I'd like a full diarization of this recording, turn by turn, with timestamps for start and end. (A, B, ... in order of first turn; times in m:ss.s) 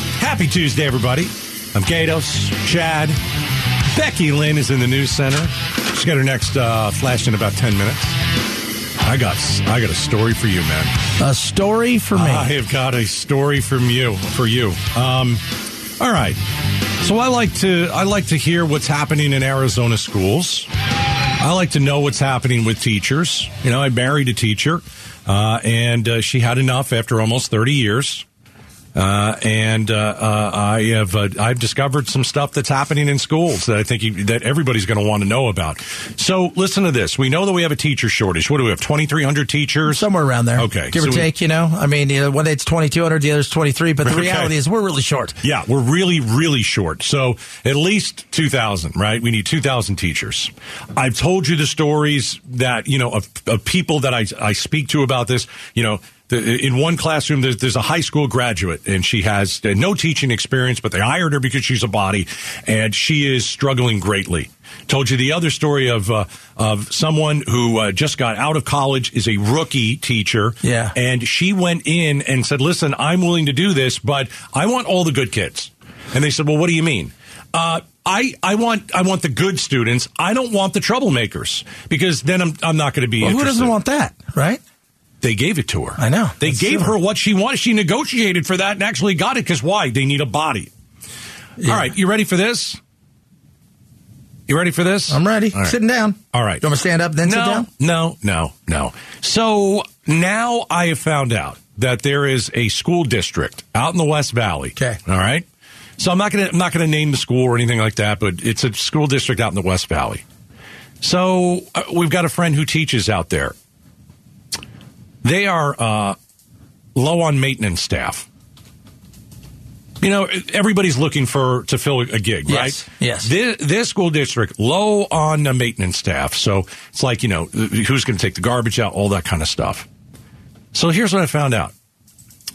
0:00.2-0:03.2 A
0:03.9-0:08.2 A
0:09.0-0:10.9 A
0:11.2-0:12.5 B
0:12.1-0:15.4 A
0:16.0-0:16.4 A
0:17.0-0:20.7 A
0:21.4-0:28.2 A
0:28.9-0:41.3 A
0:39.9-0:45.4 B
0:44.0-0:44.5 A
0:45.4-1:23.7 A
1:10.6-1:10.9 B
1:23.2-1:24.6 B
1:25.2-1:30.7 A
1:26.0-1:26.9 B
1:31.6-1:31.9 B
1:31.6-1:32.8 A
1:34.5-1:35.7 A
1:35.1-1:37.7 B
1:36.3-1:36.6 A
1:37.2-1:45.4 A
1:46.0-1:50.2 A
1:51.0-1:53.5 A
1:55.2-1:56.2 A
1:56.9-1:58.2 A
2:00.0-2:09.8 A
2:02.5-2:03.3 B
2:10.7-2:11.7 A